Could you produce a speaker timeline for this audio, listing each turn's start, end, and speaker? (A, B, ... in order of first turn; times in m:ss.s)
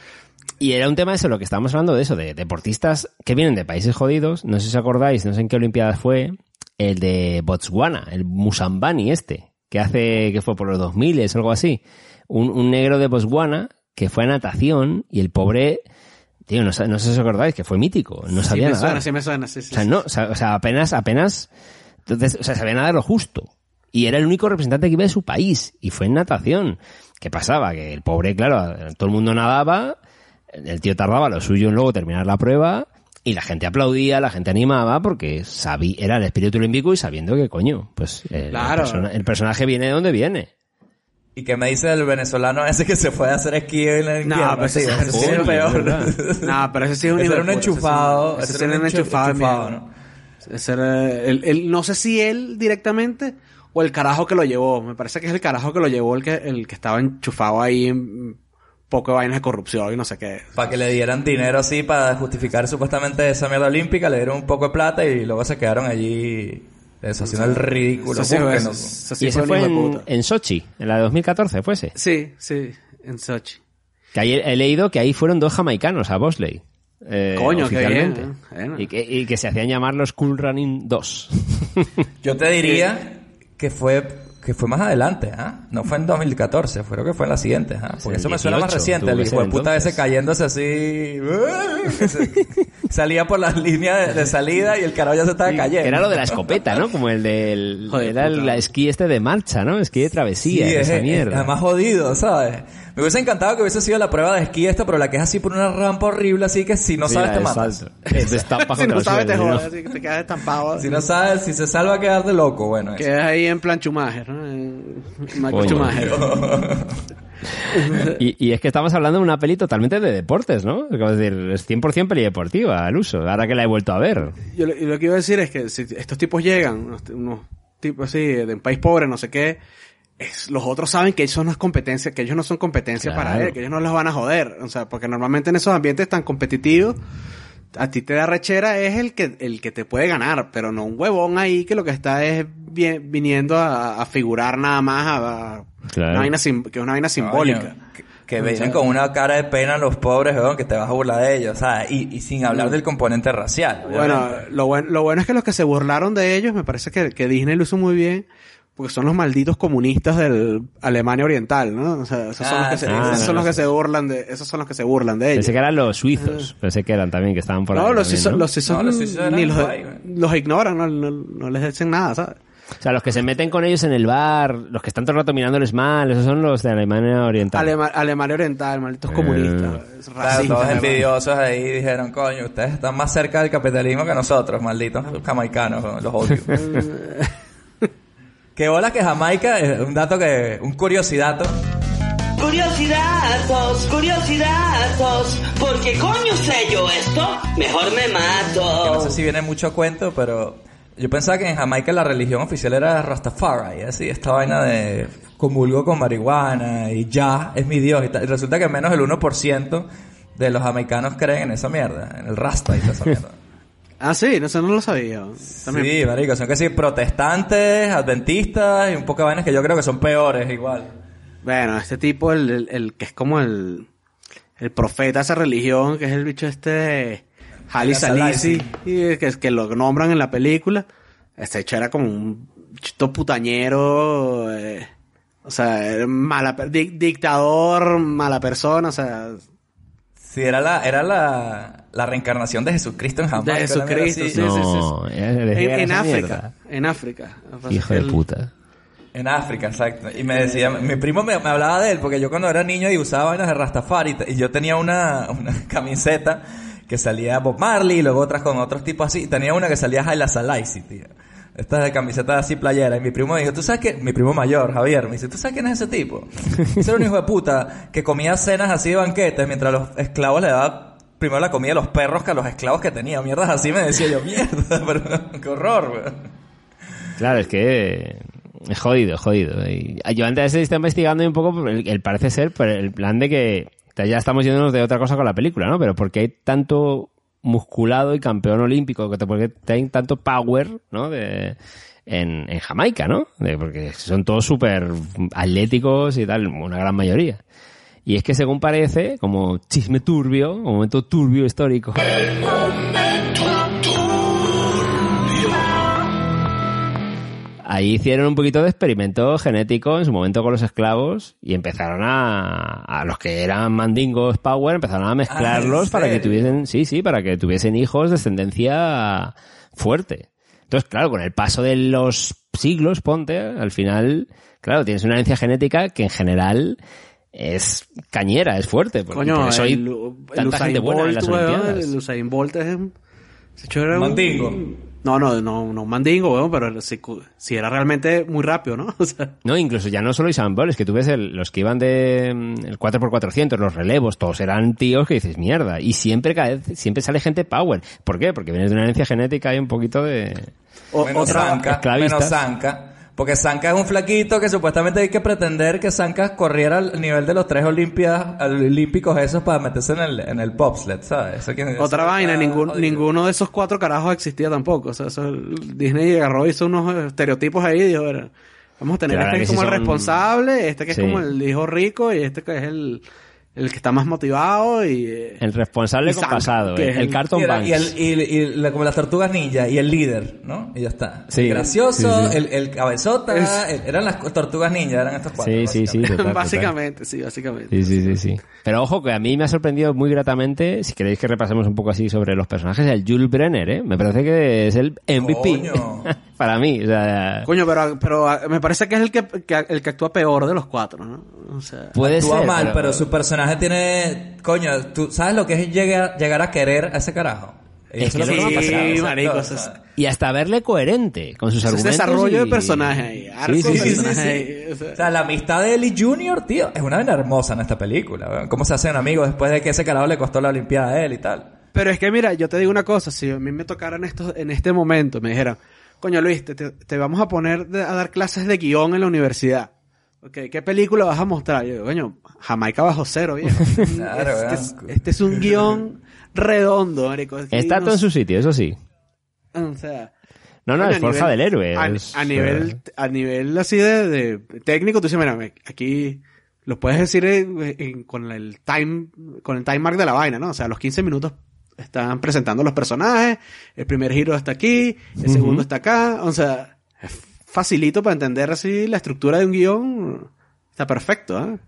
0:00.6-0:15.8 A
0:16.5-0:19.0 A
0:18.4-0:19.9 B
0:19.7-0:21.5 A
0:22.0-0:30.0 A
0:30.5-0:40.5 A
0:38.5-0:39.0 B
0:41.4-0:46.6 C
0:44.2-0:45.8 B
0:44.9-0:46.1 A
0:46.4-0:49.7 B
0:47.1-0:49.9 C
0:50.4-0:58.4 B
0:58.9-1:00.5 B
1:00.6-1:08.9 C
1:07.2-1:10.0 B
1:09.2-1:11.9 A
1:11.9-1:13.6 B
1:14.1-1:22.0 A
1:17.4-1:18.8 B
1:22.2-1:36.7 C
1:28.0-1:30.0 A
1:35.4-1:41.5 A
1:37.9-1:38.6 B
1:40.4-1:48.4 C
1:47.0-1:49.7 A
1:48.2-1:51.0 B
1:50.8-1:53.1 C
1:53.0-1:56.2 B
1:55.5-1:56.1 A
1:55.6-1:57.0 C
1:57.7-1:58.2 B
1:58.1-2:04.3 A
2:04.5-2:09.6 B
2:10.2-2:17.0 B
2:13.0-2:13.6 A
2:17.7-2:27.7 B
2:25.9-2:26.3 A
2:27.2-2:34.4 C
2:28.4-2:28.8 B
2:32.5-2:32.8 B
2:33.8-2:45.6 B
2:42.4-2:43.4 C
2:42.9-2:43.6 A
2:45.3-2:48.4 A
2:46.2-2:46.5 B
2:47.7-2:52.4 B
2:48.6-2:50.0 C
2:52.8-2:57.7 A
2:57.5-3:01.0 B
2:59.1-2:59.8 A
3:00.2-3:06.7 C
3:06.6-3:07.3 B
3:08.6-3:11.6 C
3:12.4-3:19.2 D
3:18.8-3:33.3 C
3:34.0-3:36.0 B
3:35.5-3:40.9 C
3:41.4-3:43.9 B
3:44.6-3:50.9 B
3:47.7-3:48.7 C
3:51.4-3:54.9 B
3:55.4-3:59.4 B
4:00.2-4:04.5 C
4:03.4-4:04.9 B
4:04.3-4:06.5 A
4:05.5-4:08.2 B
4:07.7-4:08.5 A
4:09.1-4:36.2 C
4:37.2-4:57.4 A
4:58.0-5:02.2 A
5:07.6-5:26.8 A
5:15.3-5:16.6 C
5:27.3-5:31.9 A
5:29.1-5:32.9 B
5:33.6-5:39.3 B
5:33.9-5:34.6 C
5:39.4-5:50.5 A
5:50.9-5:51.6 B
5:51.0-6:03.0 C
5:51.2-5:52.4 A
6:01.8-6:13.0 B
6:09.1-6:10.2 A
6:10.9-6:11.2 A
6:13.6-6:15.4 B
6:15.4-6:17.9 A
6:16.0-6:17.2 B
6:17.3-6:26.2 C
6:21.3-6:22.4 A
6:23.3-6:23.6 B
6:25.4-6:26.7 A
6:26.1-6:28.2 B
6:27.7-6:37.5 A
6:35.2-6:36.1 C
6:37.4-6:41.9 B
6:41.9-6:43.0 A
6:42.0-6:49.8 C
6:48.0-6:49.1 A
6:48.2-6:49.7 B
6:50.0-6:54.1 A
6:51.6-6:55.0 B
6:53.6-7:01.5 C
7:01.7-7:09.7 B
7:10.2-7:18.0 B
7:13.9-7:15.8 C
7:17.5-7:18.8 A
7:19.5-7:20.1 B
7:20.6-7:22.7 A
7:20.8-7:41.6 B
7:35.2-7:35.6 A